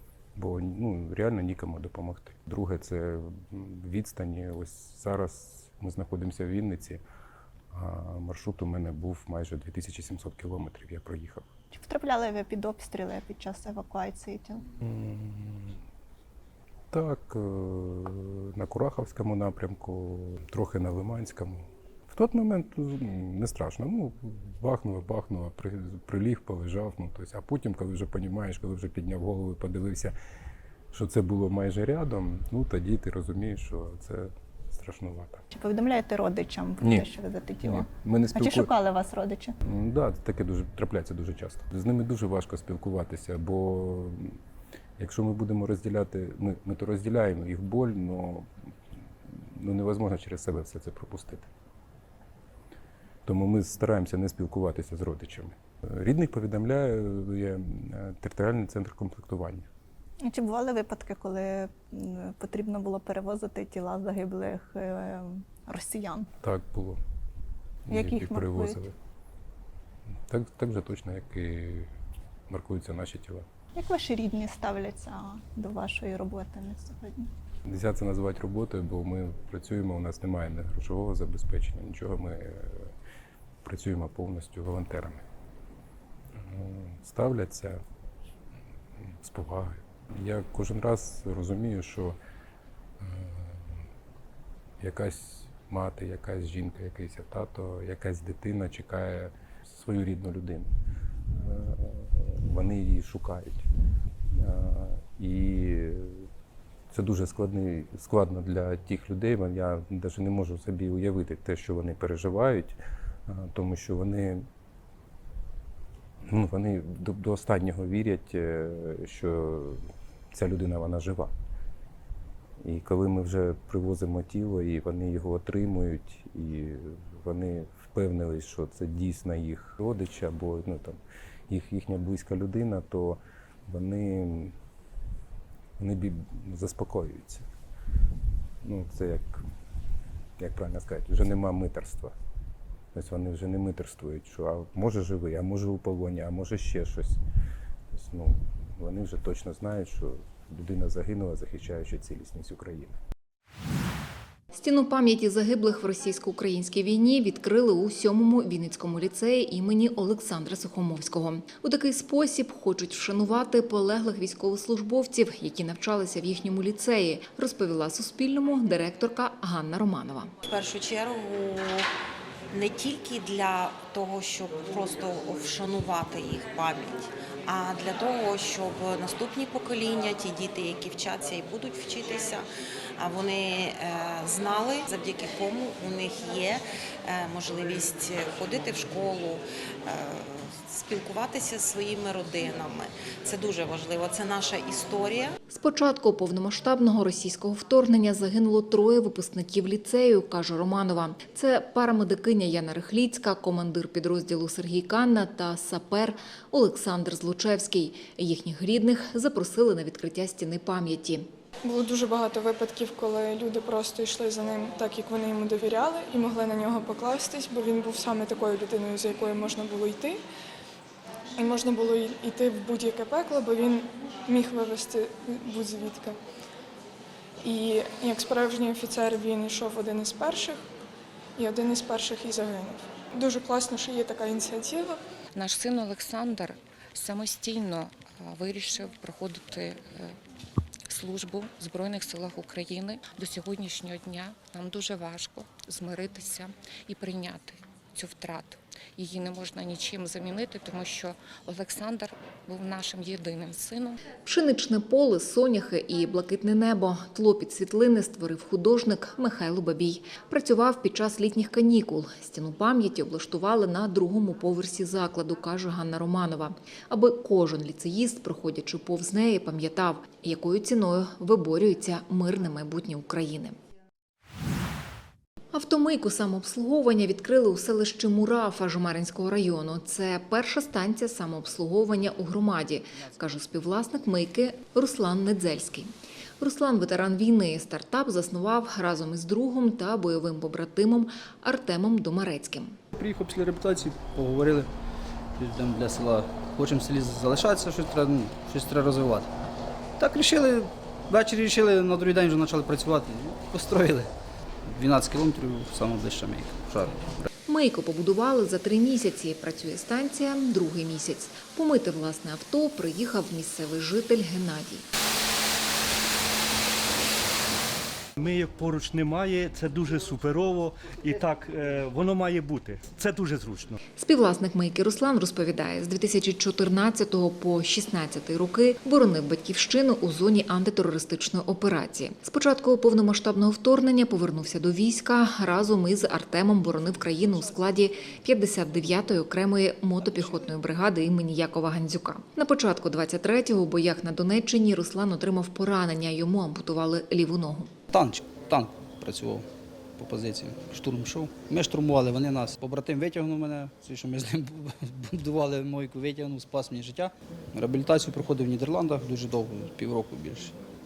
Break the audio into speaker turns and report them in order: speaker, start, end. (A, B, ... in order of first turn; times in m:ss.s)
0:00.4-0:07.0 A
0:07.7-0:11.5 A
0:11.7-0:14.6 B
0:14.8-0:15.7 A
0:16.9-0:30.1 A
0:30.9-0:35.4 A
0:35.5-0:39.5 B
0:36.8-0:37.1 A
0:37.6-0:38.7 A
0:39.6-0:44.4 A
0:45.0-0:48.5 A
0:49.5-0:51.5 A
0:53.2-0:59.7 A
1:00.2-1:06.3 B
1:06.4-1:07.0 A
1:07.9-1:08.9 A
1:07.9-1:08.8 B
1:10.3-1:11.9 A
1:12.5-1:13.4 A
1:13.8-1:17.3 B
1:17.7-1:22.9 A
1:23.6-1:25.2 A
1:26.4-1:27.8 A
1:29.1-1:32.2 A
1:33.0-1:33.6 A
1:34.8-1:40.7 A
1:41.3-1:43.7 A
1:44.3-1:46.3 A
1:46.9-1:54.4 A
1:56.3-2:01.3 A
2:02.6-2:14.5 A
2:15.8-2:17.4 A
2:18.6-2:19.4 A
2:20.4-2:22.1 A
2:22.9-2:27.2 A
2:27.9-2:32.9 A
2:34.5-2:50.3 C
2:50.4-2:51.9 D
2:52.5-3:15.3 D
3:15.5-3:31.3 C
3:31.6-3:40.2 E
3:41.4-3:46.2 E
3:47.4-3:50.7 E
3:51.4-3:55.0 E
3:55.3-4:00.1 F
4:00.9-4:14.0 F
4:14.2-4:33.6 C
4:35.5-4:52.8 C
4:52.9-4:54.7 G
4:55.4-4:59.3 G
5:00.0-5:04.1 G
5:04.6-5:07.3 G
5:07.5-5:14.8 C
5:18.2-5:23.8 H
5:24.0-5:47.7 C
5:47.9-5:49.5 G
5:50.0-6:00.5 G